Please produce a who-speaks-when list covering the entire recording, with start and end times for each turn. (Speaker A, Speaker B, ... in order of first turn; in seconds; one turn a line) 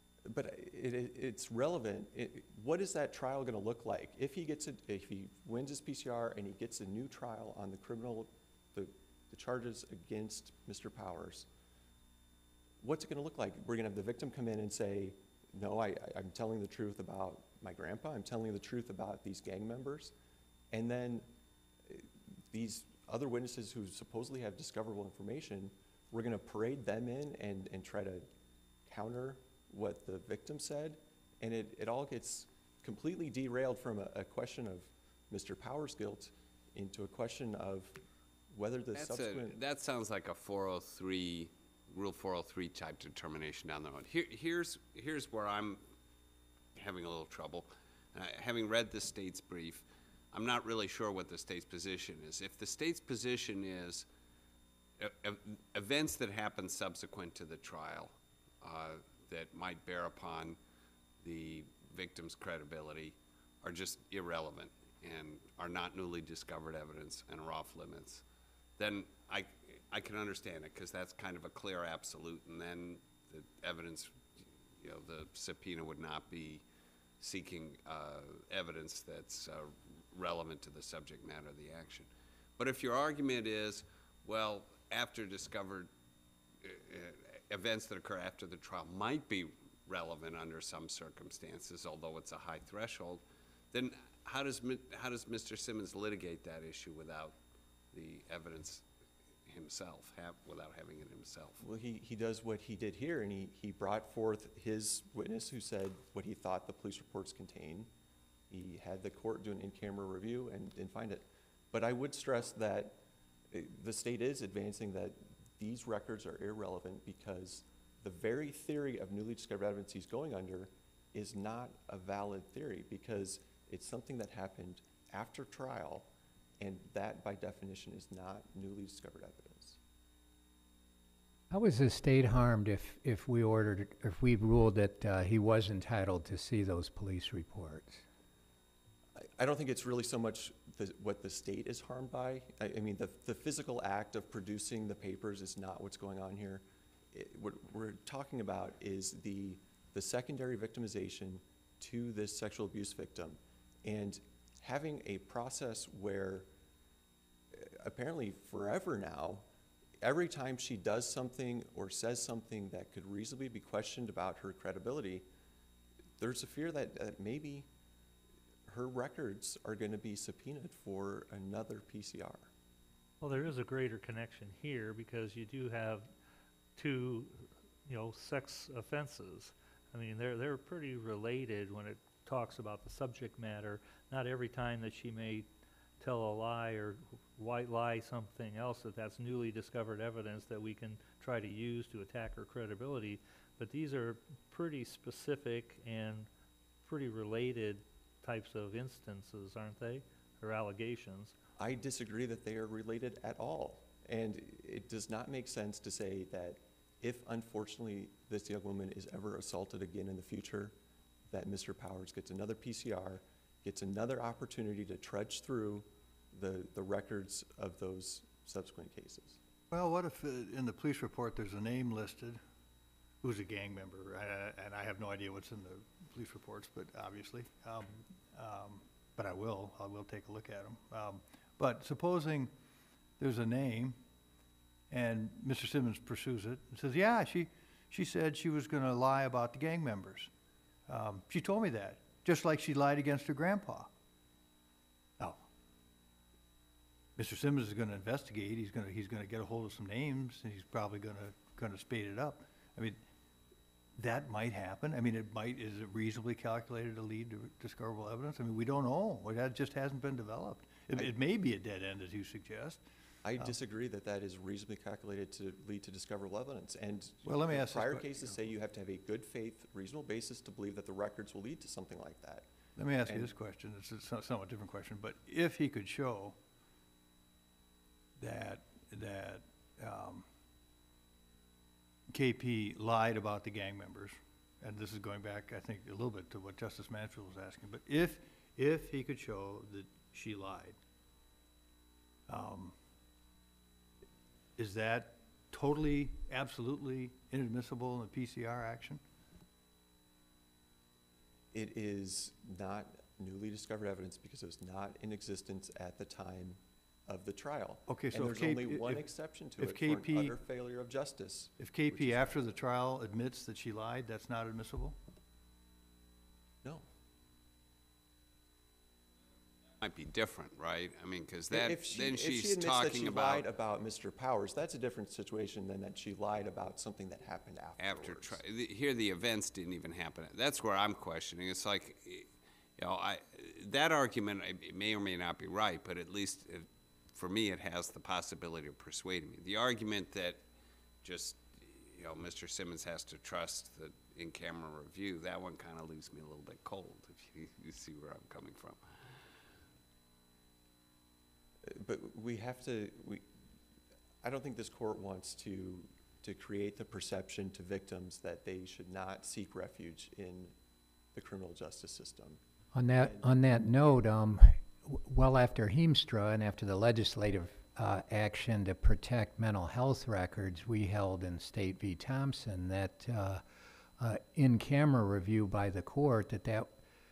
Speaker A: 0.3-11.5
Speaker A: 12.8-20.1
Speaker A: 20.7-21.3
Speaker A: 21.9-28.3
Speaker A: 28.9-38.0
Speaker A: 38.5-39.6
Speaker B: 38.9-45.8
Speaker B: 46.7-54.1
Speaker B: 55.0-60.6
Speaker B: 61.2-68.2
Speaker B: 68.8-76.6
Speaker B: 77.2-85.9
Speaker B: 86.6-97.4
Speaker B: 97.9-98.8
Speaker B: 99.5-101.6
Speaker A: 101.6-107.9
Speaker A: 108.5-113.0
Speaker A: 113.5-126.1
Speaker A: 126.6-129.8
Speaker C: 131.5-138.0
Speaker A: 139.2-156.5
Speaker A: 157.5-159.4
Speaker A: 160.0-165.2
Speaker A: 166.2-167.7
Speaker A: 168.7-172.5
Speaker D: 173.2-176.1
Speaker D: 176.8-185.5
Speaker D: 186.0-196.3
Speaker D: 196.8-201.3
Speaker A: 201.6-210.7
Speaker A: 211.3-219.4
Speaker E: 219.7-222.4
Speaker E: 223.2-232.5
Speaker E: 233.2-234.0
Speaker E: 234.9-240.3
Speaker E: 240.9-243.9
Speaker E: 245.2-245.4
Speaker E: 247.2-253.0
Speaker E: 254.0-262.8
Speaker A: 263.2-272.5
Speaker E: 267.2-268.5
Speaker E: 272.8-276.4
Speaker A: 273.0-273.3
Speaker E: 278.2-280.2
Speaker E: 282.1-290.8
Speaker E: 292.3-292.7
Speaker E: 294.6-299.0
Speaker A: 301.5-312.4
Speaker E: 307.9-310.4
Speaker E: 311.6-315.0
Speaker B: 319.8-323.4
Speaker A: 321.5-328.4
Speaker B: 327.8-340.4
Speaker B: 341.0-348.8
Speaker A: 351.7-353.2
Speaker A: 354.2-360.5
Speaker A: 361.1-362.4
Speaker C: 362.7-373.4
Speaker A: 362.9-363.3
Speaker C: 374.0-376.7